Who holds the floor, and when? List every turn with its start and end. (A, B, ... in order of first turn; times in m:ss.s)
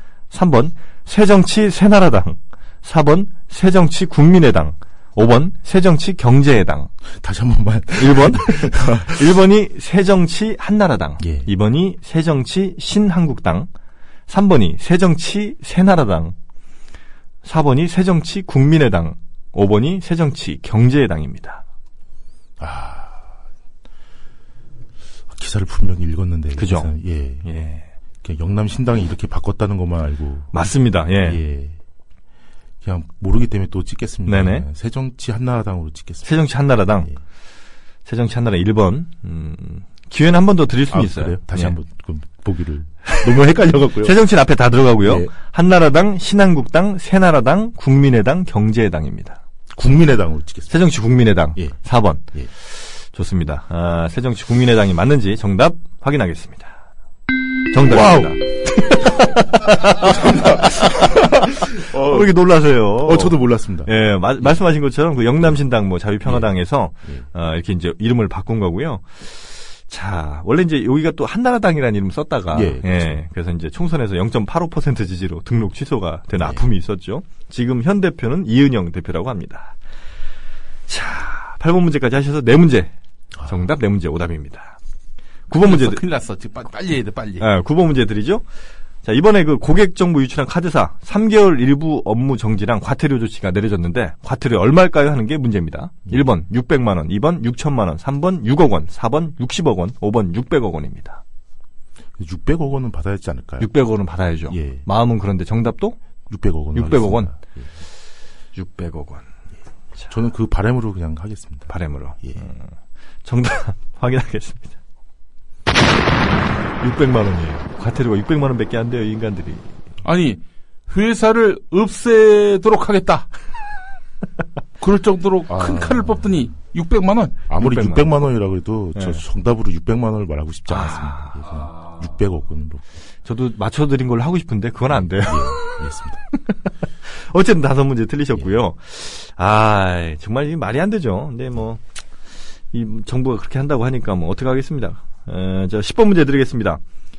0:00.3-0:06.9 A
0:07.2-0:09.2 B
0:08.0-0:13.7 A
0:11.2-0:11.5 B
0:14.3-0:16.3 A
0:17.4-0:21.6 A
0:22.6-0:23.2 B
0:25.3-0:27.5 B
0:26.6-0:26.9 A
0:27.4-0:27.8 A
0:28.2-0:30.5 B
0:30.5-0:31.4 A
0:31.2-0:31.8 B
0:32.8-0:36.3 B
0:34.2-0:34.6 A
0:36.2-0:37.1 A
0:38.0-0:41.8 A
0:40.9-0:44.2 B
0:43.0-0:49.4 A
0:45.0-0:45.3 B
0:49.7-0:50.8 B
0:50.7-0:56.7 A
0:57.7-1:01.0 A
0:57.9-0:58.2 B
0:59.8-1:02.4 B
1:01.6-1:19.8 A
1:03.0-1:03.9 B
1:12.5-1:13.2 B
1:20.9-1:22.9 A
1:23.4-1:24.8 A
1:25.5-1:26.0 A
1:25.5-1:27.5 C
1:27.4-1:28.4 A
1:29.0-1:41.2 A
1:42.2-1:43.7 B
1:43.6-1:46.0 A
1:44.5-1:44.8 B
1:46.3-1:47.6 B
1:46.7-1:47.3 A
1:48.5-1:49.3 A
1:50.1-1:51.7 B
1:51.7-1:52.6 A
1:52.2-1:52.5 B
1:53.2-1:54.7 A
1:56.8-1:59.7 A
2:00.0-2:03.3 C
2:04.8-2:07.4 C
2:05.5-2:06.2 B
2:07.5-2:12.8 B
2:07.6-2:08.1 A
2:09.0-2:09.2 A
2:10.7-2:11.4 A
2:13.2-2:15.8 A
2:15.2-2:16.2 B
2:16.3-2:21.8 A
2:22.7-2:26.8 A